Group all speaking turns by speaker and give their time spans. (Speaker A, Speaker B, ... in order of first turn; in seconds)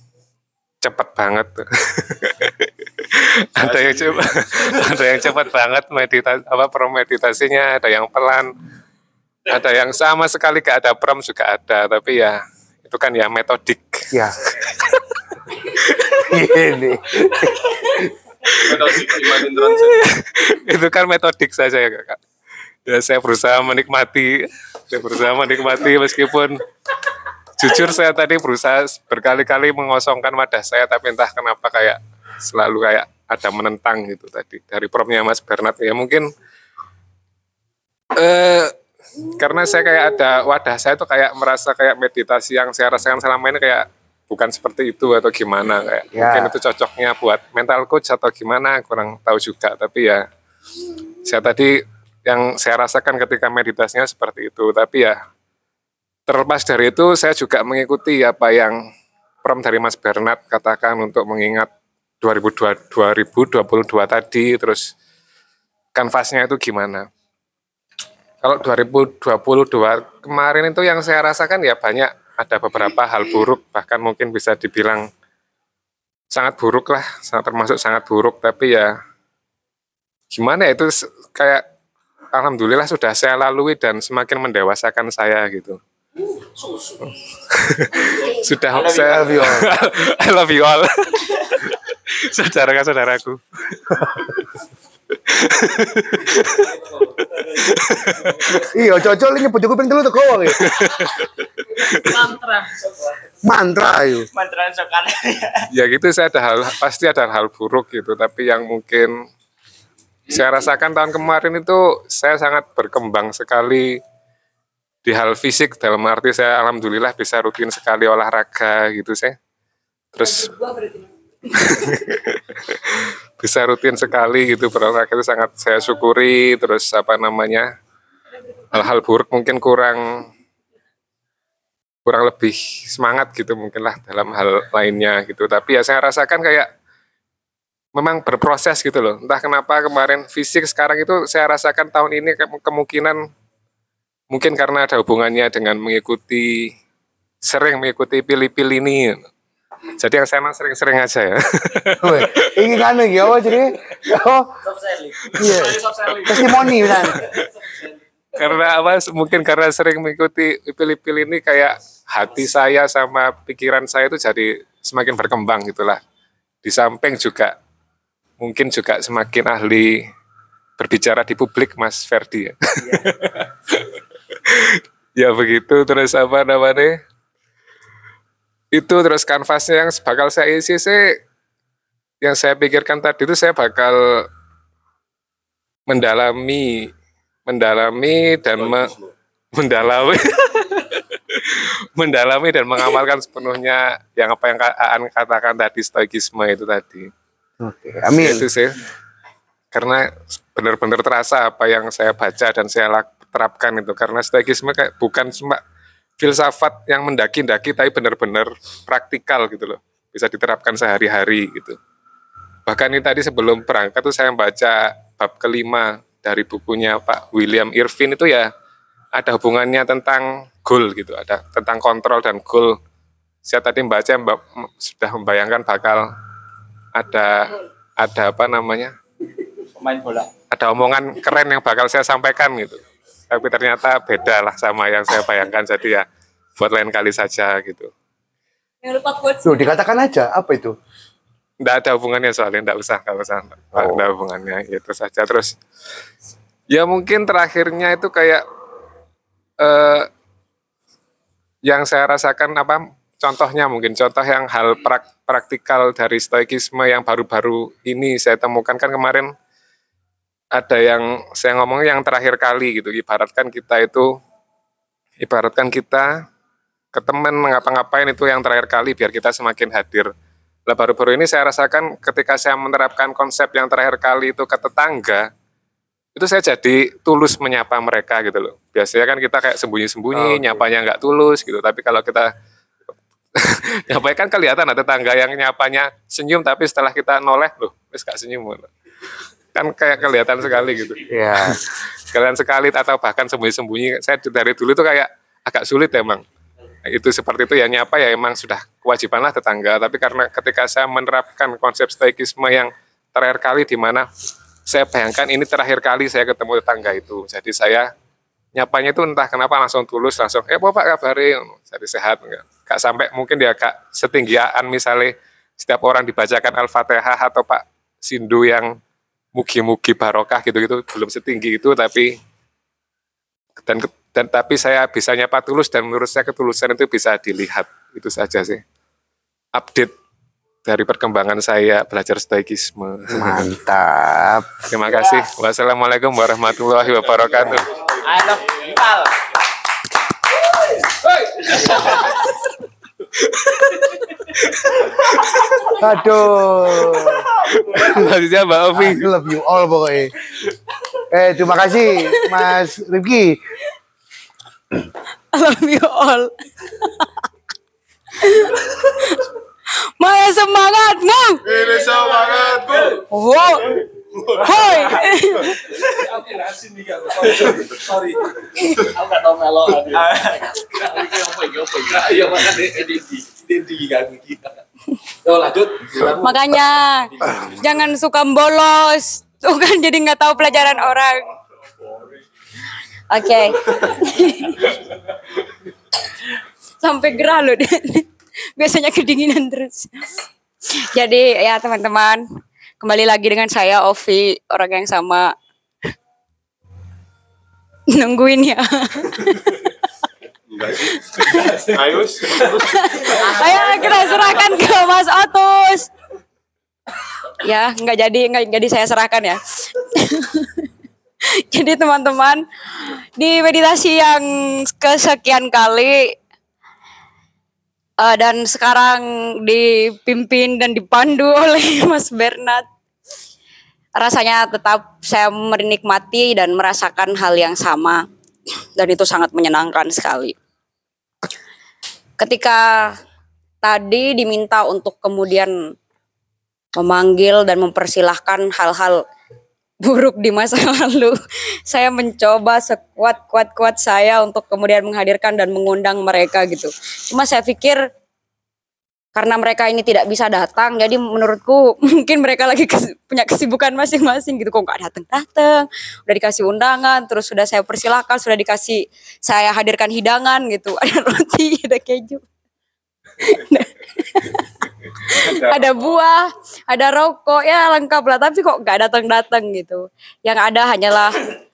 Speaker A: 0.8-8.5, 9.5-14.0, 20.1-22.2, 22.9-26.6, 27.6-36.3, 38.1-38.7, 39.3-50.2, 51.2-55.2, 56.3-58.8, 59.4-61.7, 62.2-64.9, 66.0-67.1, 68.4-75.0, 76.3-78.9, 80.3-81.7, 82.3-85.8, 87.5-94.4, 95.3-96.7, 97.2-98.7, 100.6-102.3, 105.7-109.1, 110.3-114.0, 115.0-119.4, 120.2-120.5, 121.6-127.7, 128.7-130.3, 132.1-136.7, 137.9-143.2, 144.3-146.7, 147.4-149.2, 150.0-152.5, 156.4-157.5, 158.4-166.0, 166.6-167.6, 168.4-170.0, 170.8-177.0, 178.7-181.2, 182.2-184.3, 185.9-186.9, 187.5-188.9, 189.5-197.1, 198.2-198.8, 199.7-205.6, 206.2-211.8, 212.7-218.5, 219.2-222.8, 223.4-226.1, 226.9-228.9, 230.5-236.1, 236.6-237.9, 241.6-245.6, 246.7-248.4, 249.6-250.1, 251.7-259.3, 260.5-264.1, 265.2-266.1, 266.9-270.1, 270.7-275.3, 276.2-282.3, 283.4-288.7, 289.5-296.2, 296.9-304.1, 304.7-307.9, 308.6-318.7, 319.4-322.2, 323.6-328.6, 329.6-329.9, 330.7-333.4, 334.7-337.7, 345.3-345.7, 347.5-349.1
Speaker B: 3.6-4.8, 18.6-20.2, 188.6-189.1, 361.4-363.0, 364.2-364.9, 400.5-402.7
Speaker C: 16.1-18.0, 46.1-46.5, 89.0-89.7, 98.5-100.8, 103.5-104.3, 152.0-154.5, 155.3-157.3, 197.6-198.4, 239.4-240.8, 243.7-244.0, 291.1-291.6, 333.1-334.5, 345.8-348.0, 348.7-350.1, 351.1-353.4
Speaker D: 86.6-87.1, 154.9-157.0, 338.2-338.5, 341.4-342.0, 365.9-374.5, 375.3-376.5
Speaker E: 88.7-89.5, 104.3-105.7, 229.8-230.3, 338.1-339.0
Speaker F: 120.2-122.0, 238.8-239.7
Speaker G: 355.3-356.3, 358.2-359.2, 360.0-361.4, 363.1-363.8, 364.4-365.6, 376.1-381.2, 383.1-384.6, 386.8-389.9, 390.7-392.2, 392.8-395.3, 397.9-399.4, 400.9-401.5, 402.6-405.9, 407.4-410.5, 411.5-414.2, 414.8-416.1, 418.0-422.6, 424.0-428.0, 428.8-430.4, 432.2-432.9, 433.6-435.5, 436.8-439.0, 439.8-441.2, 441.7-447.8, 449.1-462.2, 463.2-464.4, 465.1-471.2